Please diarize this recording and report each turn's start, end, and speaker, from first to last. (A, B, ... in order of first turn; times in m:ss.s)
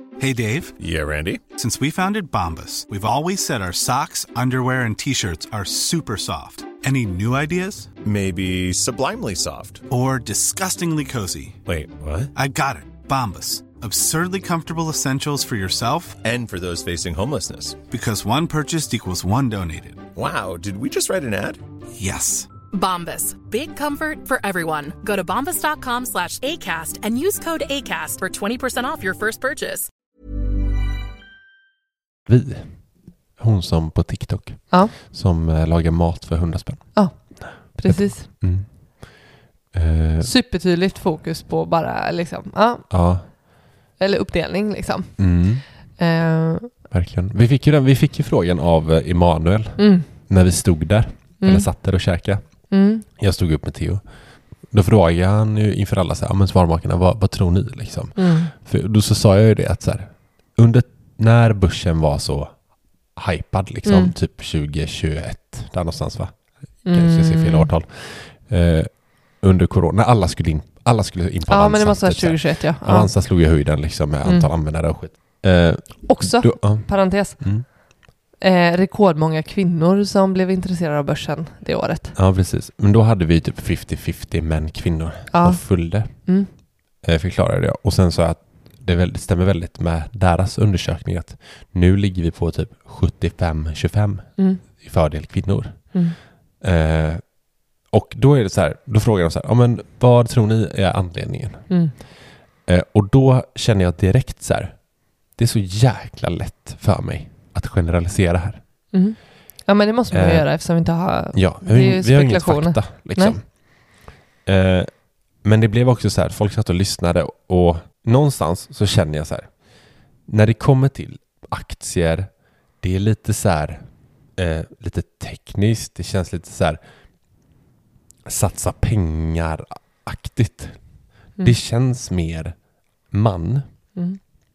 0:00.2-0:00.7 A
0:00.8-0:01.4 B
0:01.6-0:07.9 A
0:08.0-0:09.8 B
0:09.9-0:11.6 A
0:11.6-0:12.3 B
0:12.3-0:16.2 A
0:16.2-0:17.8 B
0:17.9-0:20.0 A
0:20.1-0:21.6 B
0:22.0-0:22.5 A
0:22.7-0:29.9 C
0:32.3-0:32.8 D
0:33.4-0:39.2 D
0:36.9-0:38.3 E
0:39.7-0:40.3 D
0:40.2-0:42.9 E
0:42.9-0:43.3 D
0:44.0-0:45.1 E
0:45.2-0:45.6 D
0:46.0-0:46.7 E
0:46.9-0:52.4 D
0:49.8-0:50.0 E
0:51.4-0:51.7 E
0:52.7-0:53.0 E
0:53.1-0:54.0 D
0:54.7-1:02.5 D
0:58.2-0:58.5 E
1:03.2-1:17.6 D
1:03.8-1:04.1 E
1:06.8-1:07.7 E
1:11.5-1:13.1 E
1:14.2-1:14.5 E
1:16.1-1:17.4 E
1:18.4-1:22.2 E
1:22.2-1:26.1 D
1:25.3-1:26.5 E
1:27.0-1:35.9 D
1:36.6-1:37.2 D
1:37.9-1:41.7 D
1:42.7-1:44.8 D
1:45.3-1:48.6 D
1:48.9-1:53.4 E
1:50.1-1:50.5 D
1:51.3-1:53.4 D
1:54.4-1:54.9 D
1:55.4-1:59.5 D
2:00.3-2:03.8 D
2:04.4-2:06.8 D
2:08.2-2:10.8 D
2:11.4-2:12.5 D
2:13.1-2:13.6 D